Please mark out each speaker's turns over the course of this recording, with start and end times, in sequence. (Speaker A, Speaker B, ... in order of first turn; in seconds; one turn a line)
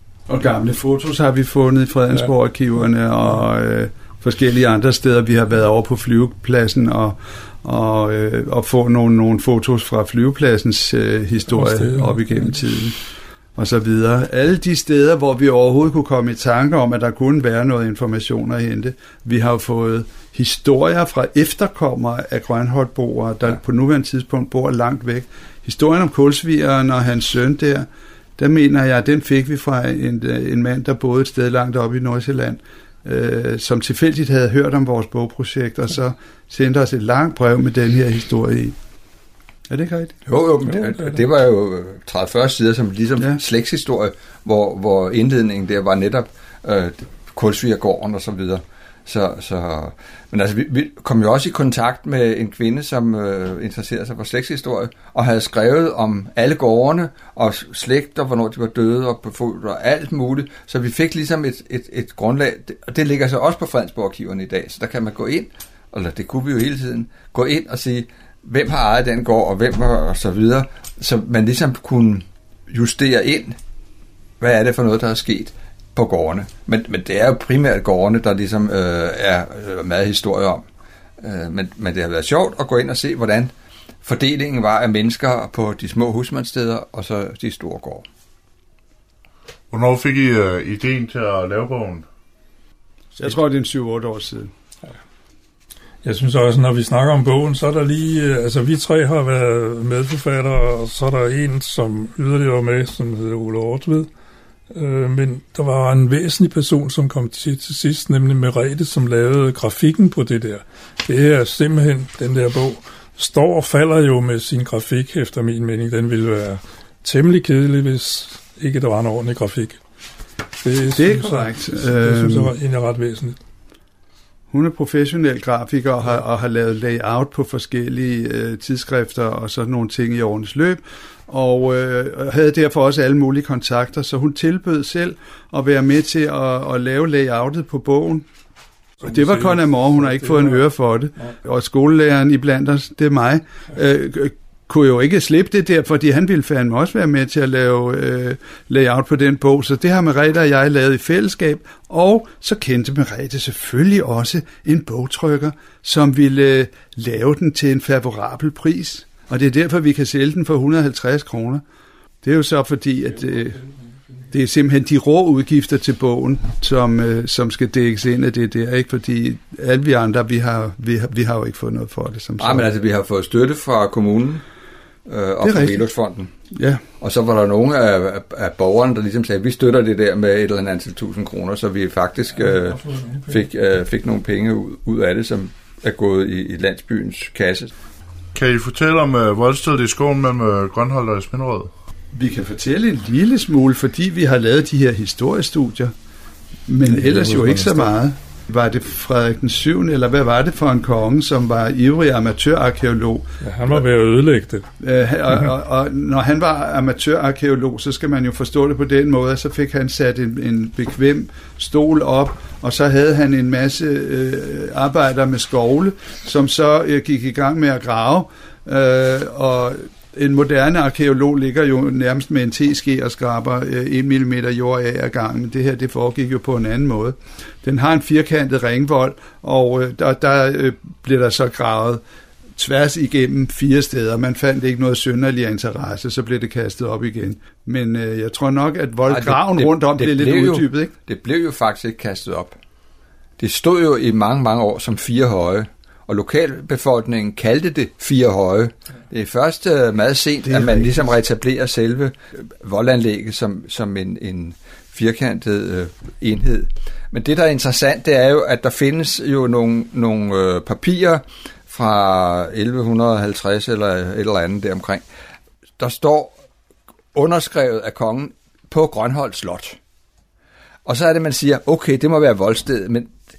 Speaker A: 0.3-13.0
Speaker B: 11.5-12.6
Speaker A: 13.6-27.9
Speaker A: 28.4-38.8
Speaker A: 39.7-40.7
Speaker C: 40.3-73.6
Speaker B: 40.7-41.2
Speaker C: 74.4-80.7
Speaker C: 81.2-83.5
Speaker C: 84.0-88.0
Speaker D: 89.7-92.1
Speaker A: 93.2-94.5
Speaker B: 96.0-104.1
Speaker B: 104.7-119.8
Speaker B: 120.6-123.4
Speaker A: 120.9-122.6
Speaker A: 124.5-138.2
Speaker B: 139.0-141.3
Speaker A: 139.0-161.6
Speaker A: 162.2-163.7
Speaker A: 164.3-172.7
Speaker C: 172.4-174.4
Speaker C: 175.1-176.3
Speaker A: 175.4-175.9
Speaker A: 176.5-176.8
Speaker C: 177.0-187.7
Speaker B: 182.8-183.1
Speaker D: 188.3-191.7
Speaker A: 192.1-195.9
Speaker A: 196.7-203.8
Speaker B: 203.4-204.7
Speaker A: 204.8-232.0
Speaker A: 232.6-240.9
Speaker C: 239.1-242.6
Speaker C: 243.4-265.0
Speaker A: 250.4-251.2
Speaker C: 265.8-266.4
Speaker C: 267.1-269.8
Speaker C: 270.9-273.2